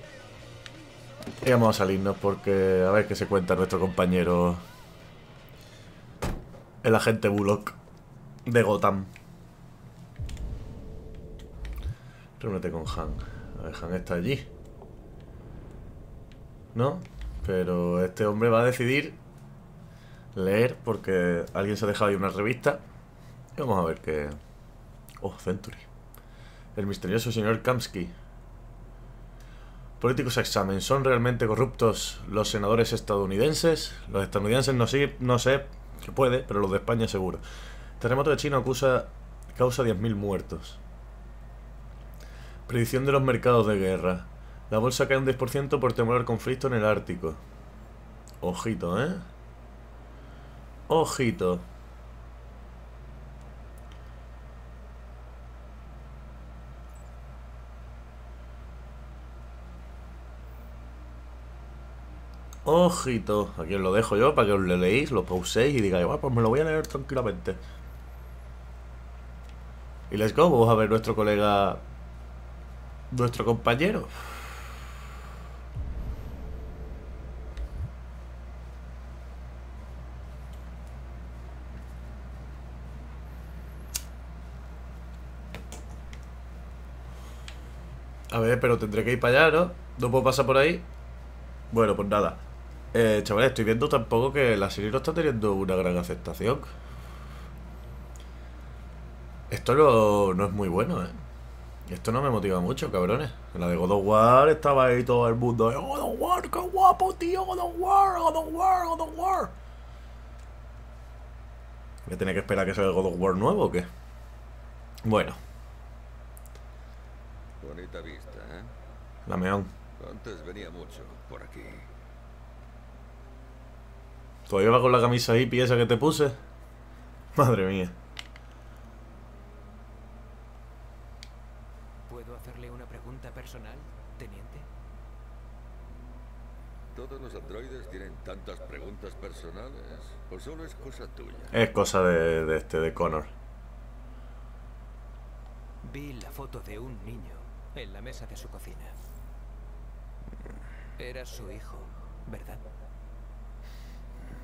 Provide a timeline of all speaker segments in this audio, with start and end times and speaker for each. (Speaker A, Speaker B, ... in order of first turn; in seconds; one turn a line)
Speaker A: 1.4-4.6
Speaker A: 6.8-7.8
Speaker A: 8.5-9.1
Speaker A: 12.4-14.5
Speaker A: 16.7-19.2
Speaker A: 20.4-22.8
Speaker A: 23.6-24.4
Speaker A: 25.2-25.9
Speaker A: 26.8-28.1
Speaker A: 30.0-37.4
Speaker A: 38.0-40.8
Speaker A: 42.7-47.4
Speaker A: 48.4-49.3
Speaker A: 50.9-51.6
Speaker A: 62.6-67.6
Speaker A: 70.1-71.8
Speaker A: 73.1-74.4
Speaker A: 88.3-90.8
Speaker A: 91.7-96.7
Speaker A: 99.5-101.2
Speaker A: 101.9-109.5
Speaker A: 112.1-113.9
Speaker A: 115.0-115.4
Speaker B: 117.6-118.8
Speaker A: 119.3-119.7
Speaker B: 120.0-121.9
Speaker A: 124.5-126.4
Speaker A: 127.3-128.0
Speaker C: 132.1-134.7
Speaker B: 136.9-141.6
Speaker A: 141.5-143.3
Speaker C: 145.8-149.0
Speaker C: 151.0-152.7